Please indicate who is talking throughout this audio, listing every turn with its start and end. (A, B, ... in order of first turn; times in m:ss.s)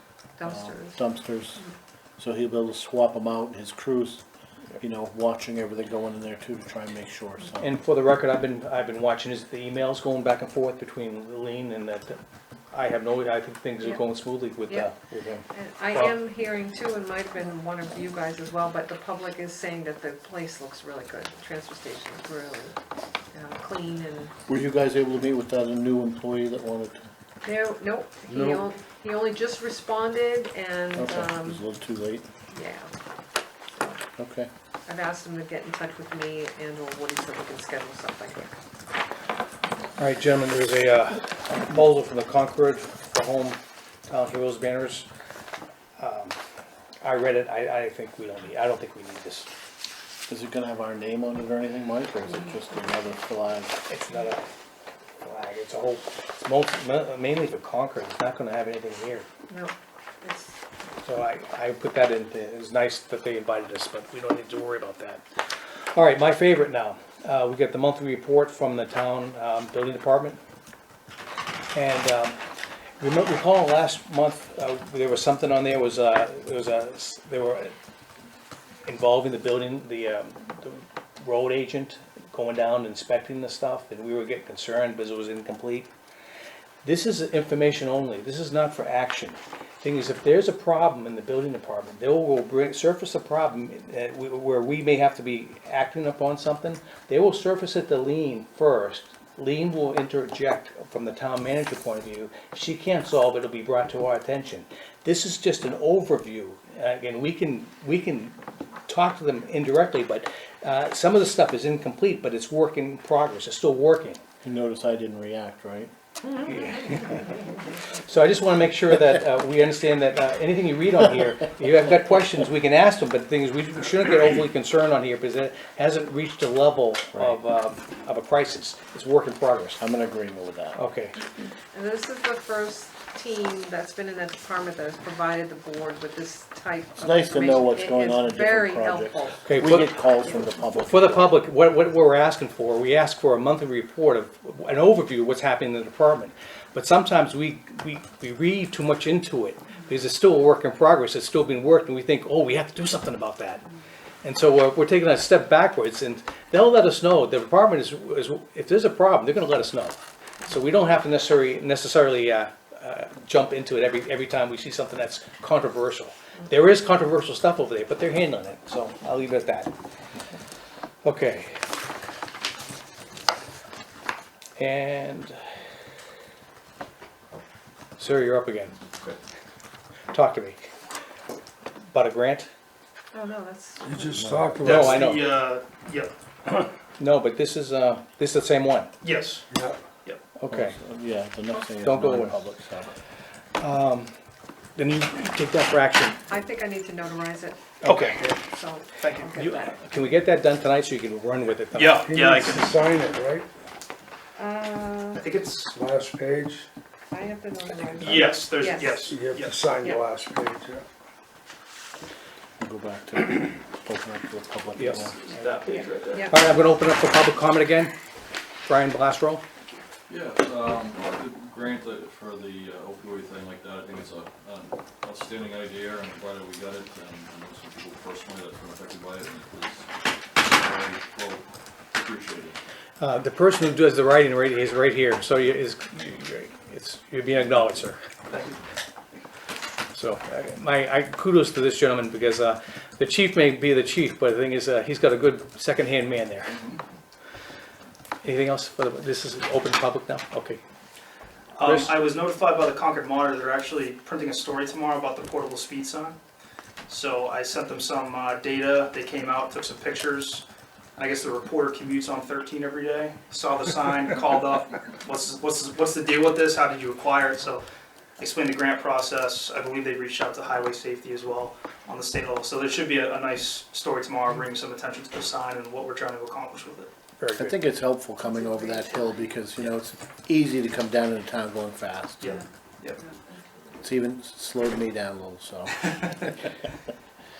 0:00.4-0:00.9 A
0:00.4-0:01.6 B
0:02.2-0:04.2 B
0:04.8-0:07.7 B
0:07.6-0:12.2 C
0:12.7-0:16.1 C
0:15.5-0:22.8 A
0:23.3-0:24.3 A
0:24.4-0:27.1 B
0:27.4-0:31.6 A
0:28.3-0:28.6 B
0:30.9-0:32.2 B
0:32.5-0:32.9 A
0:34.2-0:34.5 B
0:34.9-0:38.5 A
0:40.0-0:45.1 C
0:46.0-0:46.4 C
0:47.0-0:49.5 C
0:50.3-0:53.8 B
0:53.9-0:54.4 C
0:55.2-0:59.3 C
0:59.5-1:00.6 A
1:01.0-1:05.2 C
1:05.8-1:10.4 C
1:11.7-1:12.4 C
1:13.0-1:17.7 C
1:18.8-1:25.9 C
1:26.8-1:48.4 C
1:48.9-1:54.2 C
1:54.4-1:55.9 B
1:56.4-1:57.4 C
1:58.0-2:09.8 C
2:07.1-2:07.4 B
2:09.8-2:10.8 B
2:10.8-2:11.2 C
2:11.7-2:19.4 A
2:17.0-2:21.4 B
2:19.4-2:20.0 C
2:20.7-2:33.6 C
2:34.2-2:49.7 C
2:51.0-2:51.6 C
2:54.6-2:55.4 C
2:58.0-2:58.8 C
3:00.1-3:00.6 C
3:01.9-3:02.5 C
3:03.1-3:04.7 A
3:03.8-3:05.0 D
3:04.6-3:06.7 E
3:04.6-3:05.2 C
3:07.0-3:08.9 C
3:09.0-3:09.5 E
3:09.5-3:09.8 D
3:10.4-3:10.8 C
3:10.5-3:12.9 B
3:11.8-3:12.4 C
3:13.6-3:14.1 C
3:14.8-3:16.2 C
3:16.3-3:19.8 A
3:17.8-3:18.2 C
3:17.9-3:18.3 E
3:19.2-3:22.1 C
3:21.7-3:22.6 E
3:22.0-3:23.5 D
3:24.4-3:25.3 A
3:25.2-3:25.7 E
3:25.7-3:26.7 D
3:27.1-3:29.1 A
3:28.0-3:29.6 E
3:29.0-3:30.8 D
3:32.6-3:35.1 B
3:34.8-3:35.5 C
3:35.3-3:36.3 E
3:36.3-3:37.9 C
3:38.6-3:39.4 C
3:40.1-3:52.6 F
3:53.0-3:58.0 C
3:58.3-3:58.6 E
3:59.9-4:06.6 C
4:08.2-4:10.6 C
4:11.6-4:16.2 E
4:11.6-4:11.9 C
4:16.9-4:20.4 E
4:21.0-4:27.6 E
4:28.2-4:36.9 E
4:37.2-4:37.6 C
4:37.4-4:42.4 B
4:42.2-4:43.0 E
4:43.8-4:46.3 B